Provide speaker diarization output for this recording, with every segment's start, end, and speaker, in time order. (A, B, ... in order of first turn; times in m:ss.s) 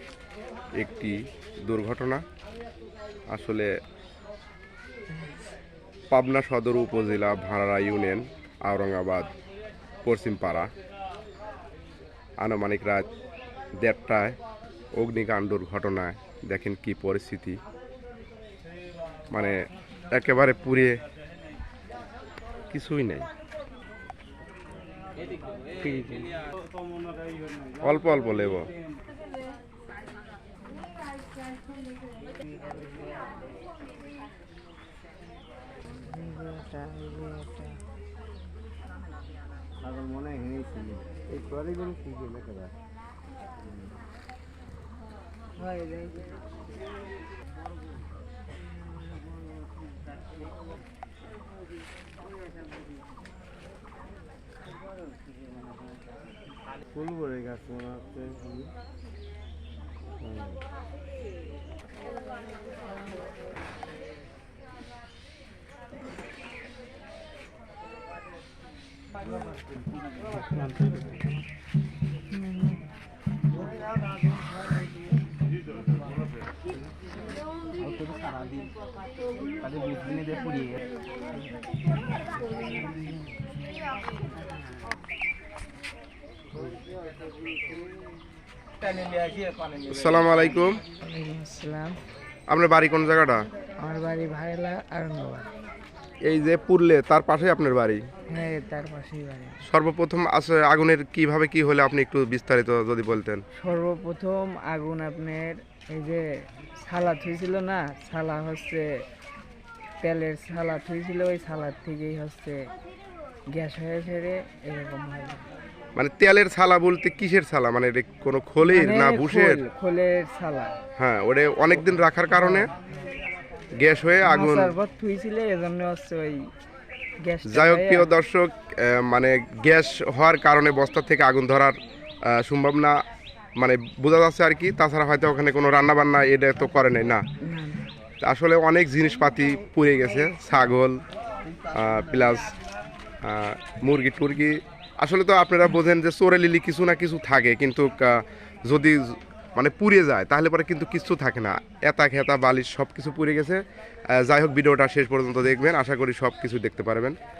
0:00.8-0:02.2 A
0:03.3-0:03.7 A
0:06.1-0:09.3 A
0:10.0-0:10.7 A
0:12.4-0:13.1 A
0:13.8-0:14.4 A
0:14.9-0:17.6 A
0:19.3-0:19.6 A
0:20.1-0:21.0 A
0:22.7-0:23.3 A
0:25.8-0:26.4 A
0:27.8-0:28.7 A
0:32.6-0:33.1 B
0:36.0-0:37.8 C
0:39.8-0:42.7 B
0:43.6-0:43.9 B
0:45.6-0:46.4 C
0:56.9-0:58.7 B
1:00.2-1:00.6 B
1:10.3-1:11.4 B
1:12.3-1:12.8 C
1:17.8-1:18.7 B
1:19.6-1:20.8 B
1:29.6-1:30.8 A
1:31.0-1:32.0 C
1:32.5-1:33.4 A
1:33.8-1:35.4 C
1:36.2-1:38.0 A
1:38.3-1:39.6 C
1:39.7-1:43.4 A
1:43.6-1:46.2 C
1:46.8-1:48.9 C
1:50.0-1:52.6 C
1:53.5-1:55.4 C
1:56.0-1:59.6 A
1:58.6-2:00.7 C
2:01.0-2:02.7 A
2:03.8-2:04.7 A
2:04.2-2:06.5 C
2:07.2-2:08.1 C
2:07.5-2:13.0 A
2:13.6-2:17.2 A
2:17.4-2:17.8 C
2:18.2-2:21.0 A
2:21.7-2:22.5 A
2:23.2-2:37.1 A